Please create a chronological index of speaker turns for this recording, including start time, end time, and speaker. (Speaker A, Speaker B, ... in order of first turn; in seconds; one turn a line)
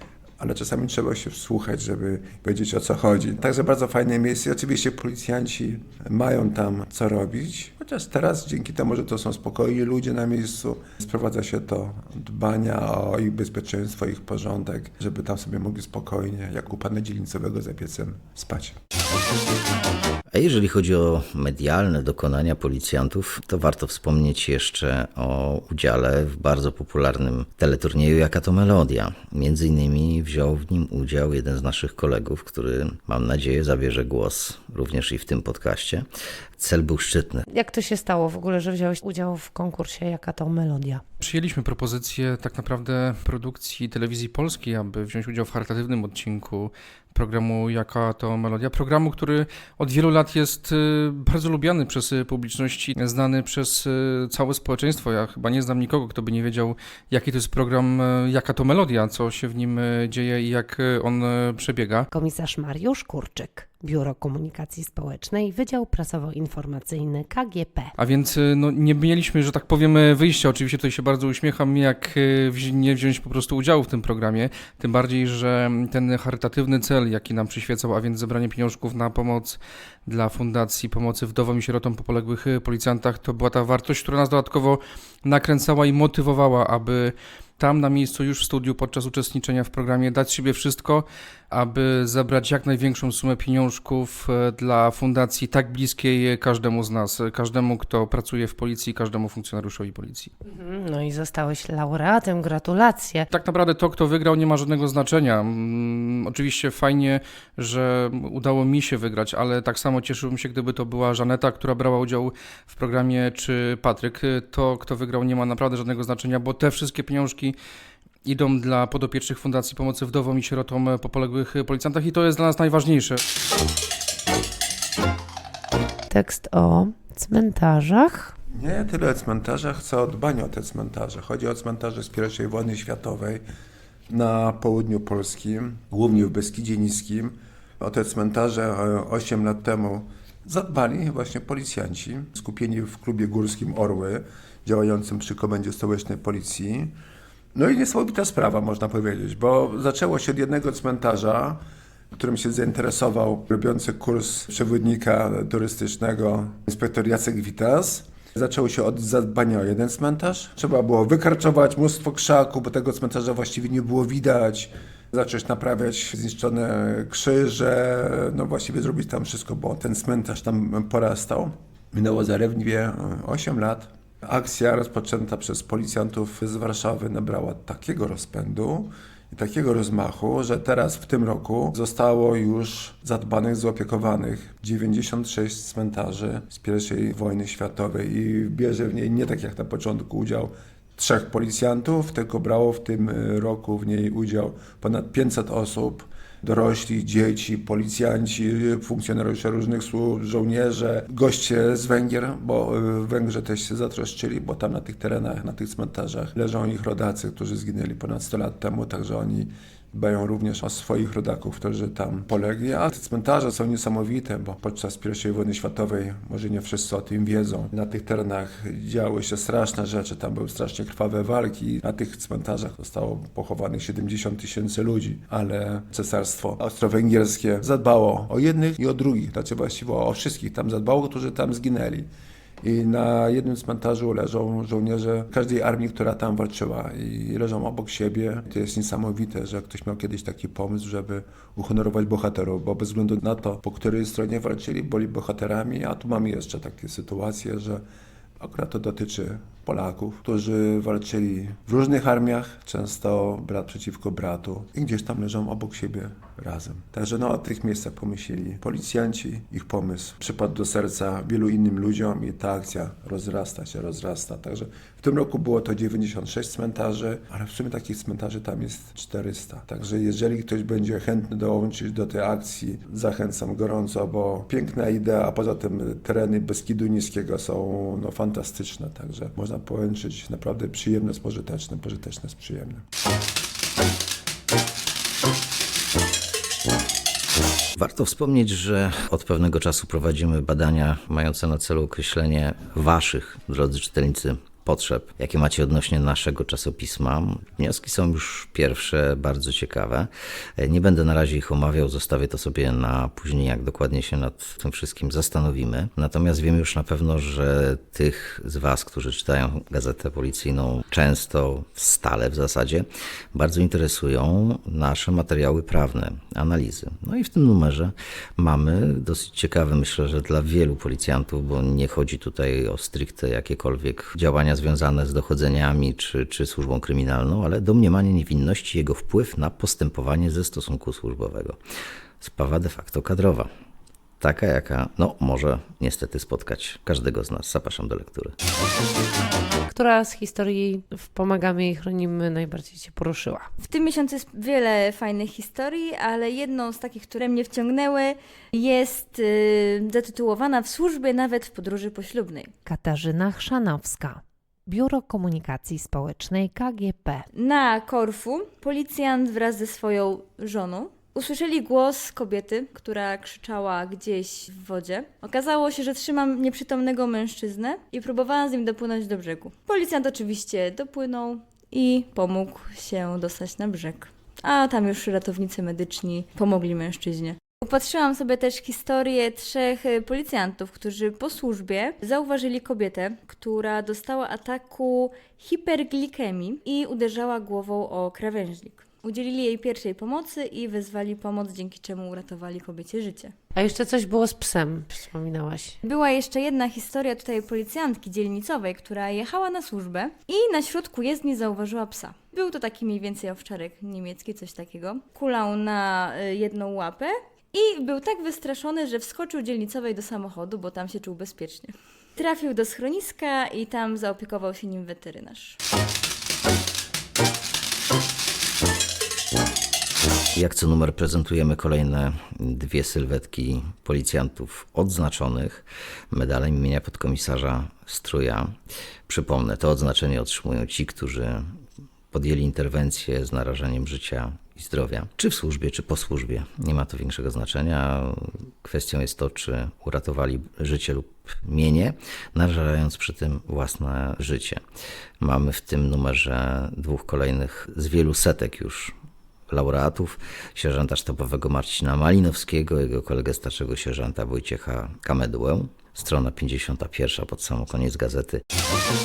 Speaker A: 0.4-18.7
Speaker B: 20.3-36.0
Speaker B: 36.6-37.4
Speaker C: 37.5-41.0
Speaker D: 41.2-62.0
Speaker C: 62.1-67.9
Speaker D: 68.0-100.3
Speaker C: 100.5-103.3
Speaker D: 103.3-117.5
Speaker D: 118.2-123.2
Speaker C: 126.1-128.3
Speaker A: 128.5-133.4
Speaker A: 134.1-146.9
Speaker A: 147.5-151.6
Speaker A: 152.1-232.1
Speaker A: 232.6-247.8
Speaker A: 248.4-282.8
Speaker B: 287.8-331.6
Speaker B: 332.2-333.5
Speaker B: 334.2-338.3
Speaker C: 339.7-343.5
Speaker E: 343.6-352.5
Speaker C: 352.6-357.2
Speaker E: 357.3-393.3
Speaker C: 393.6-395.8
Speaker E: 395.8-415.6
Speaker B: 420.3-428.5
Speaker B: 429.1-431.4
Speaker B: 432.1-444.6
Speaker B: 445.2-448.9
Speaker B: 449.5-458.4